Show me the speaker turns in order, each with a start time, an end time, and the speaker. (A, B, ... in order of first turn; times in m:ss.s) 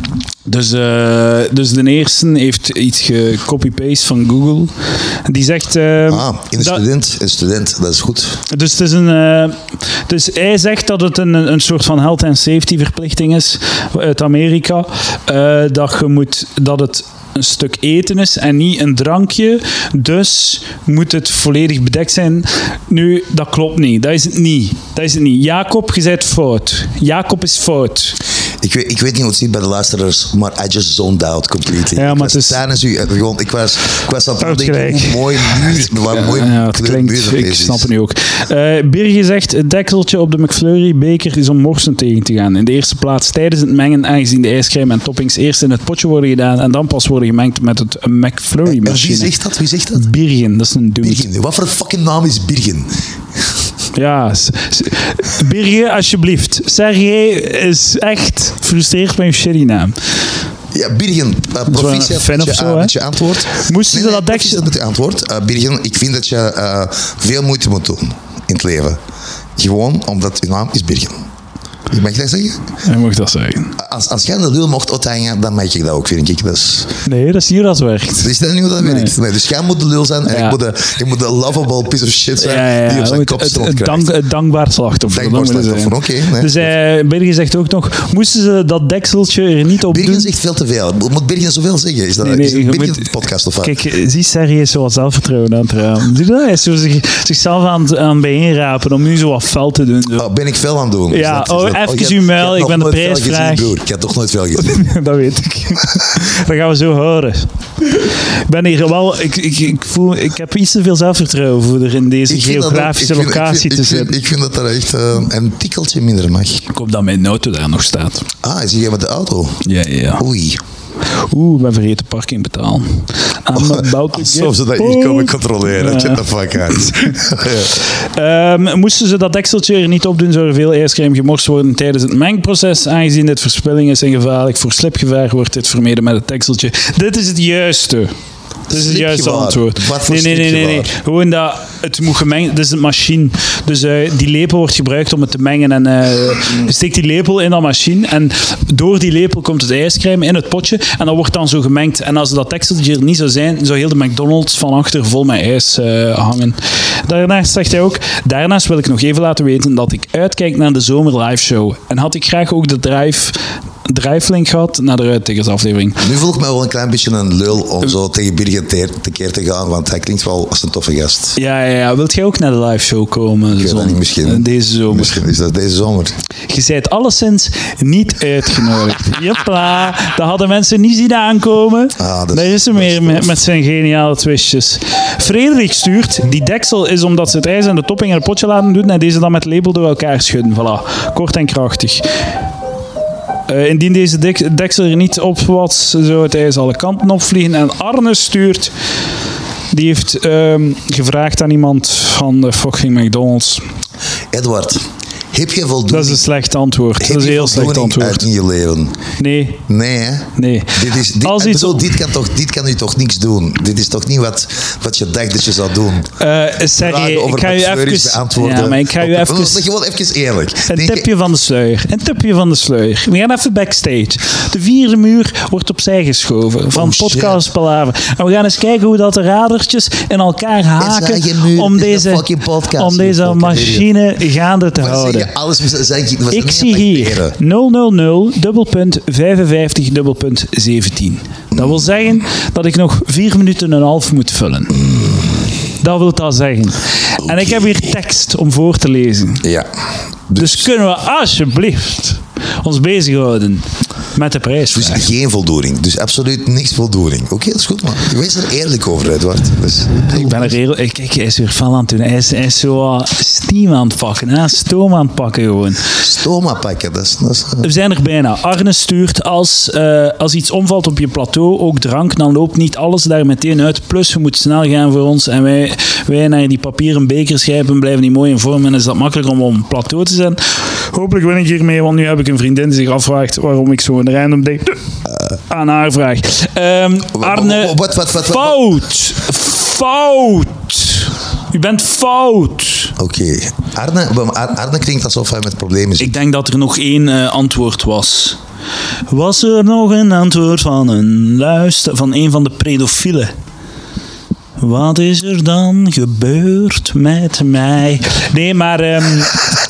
0:00.4-0:04.7 A
0:05.2-0:06.8 A
0:06.1-0:08.4 B
0:08.5-0:28.2 A
0:28.6-0:37.9 B
0:31.9-0:32.6 A
0:34.4-0:49.3 A
0:48.6-0:50.1 B
0:49.9-0:51.2 A
0:51.0-0:53.5 B
0:53.9-1:00.0 A
1:00.7-1:09.0 B
1:01.7-1:02.9 A
1:03.5-1:04.7 A
1:09.6-1:11.2 B
1:11.9-1:12.6 B
1:12.8-1:13.7 A
1:13.8-1:17.0 B
1:17.0-1:19.1 A
1:18.2-1:24.1 B
1:20.3-1:20.6 A
1:22.4-1:30.3 A
1:25.1-1:26.7 B
1:29.9-1:33.8 B
1:32.2-1:40.3 A
1:40.2-1:44.7 B
1:41.1-1:43.7 A
1:44.6-1:54.2 A
1:52.3-1:56.6 B
1:56.7-1:58.3 A
1:58.4-1:59.6 B
1:59.6-2:00.2 A
2:00.2-2:00.6 B
2:01.0-2:07.1 A
2:03.5-2:07.8 B
2:07.7-2:18.1 A
2:18.7-2:46.0 A
2:18.7-2:20.9 B
2:46.0-2:51.4 B
2:51.4-2:55.2 A
2:53.5-2:56.1 B
2:56.5-3:12.1 A
3:02.0-3:03.4 B
3:13.5-3:18.7 A
3:19.7-3:23.7 A
3:24.3-3:24.8 B
3:25.3-3:26.2 B
3:25.9-3:28.2 A
3:27.0-3:29.0 B
3:29.2-3:29.6 A
3:29.7-3:36.1 B
3:30.4-3:31.9 A
3:36.2-3:39.7 A
3:36.7-3:41.1 B
3:40.7-3:55.3 A
3:46.7-3:47.4 B
3:50.8-3:53.9 B
3:54.8-3:57.4 B
3:56.3-4:04.9 A
4:01.5-4:01.9 B
4:04.8-4:05.4 B
4:05.8-4:09.4 A
4:07.2-4:07.9 B
4:09.4-4:09.7 B
4:10.3-4:10.7 B
4:10.4-4:15.1 A
4:14.7-4:20.5 B
4:20.0-4:25.8 A
4:26.0-4:27.7 B
4:27.6-4:44.8 A
4:45.5-4:52.9 A
4:47.1-4:48.6 B
4:53.0-4:56.1 B
4:56.0-4:58.4 A
4:59.1-5:03.3 A
5:04.6-5:09.5 A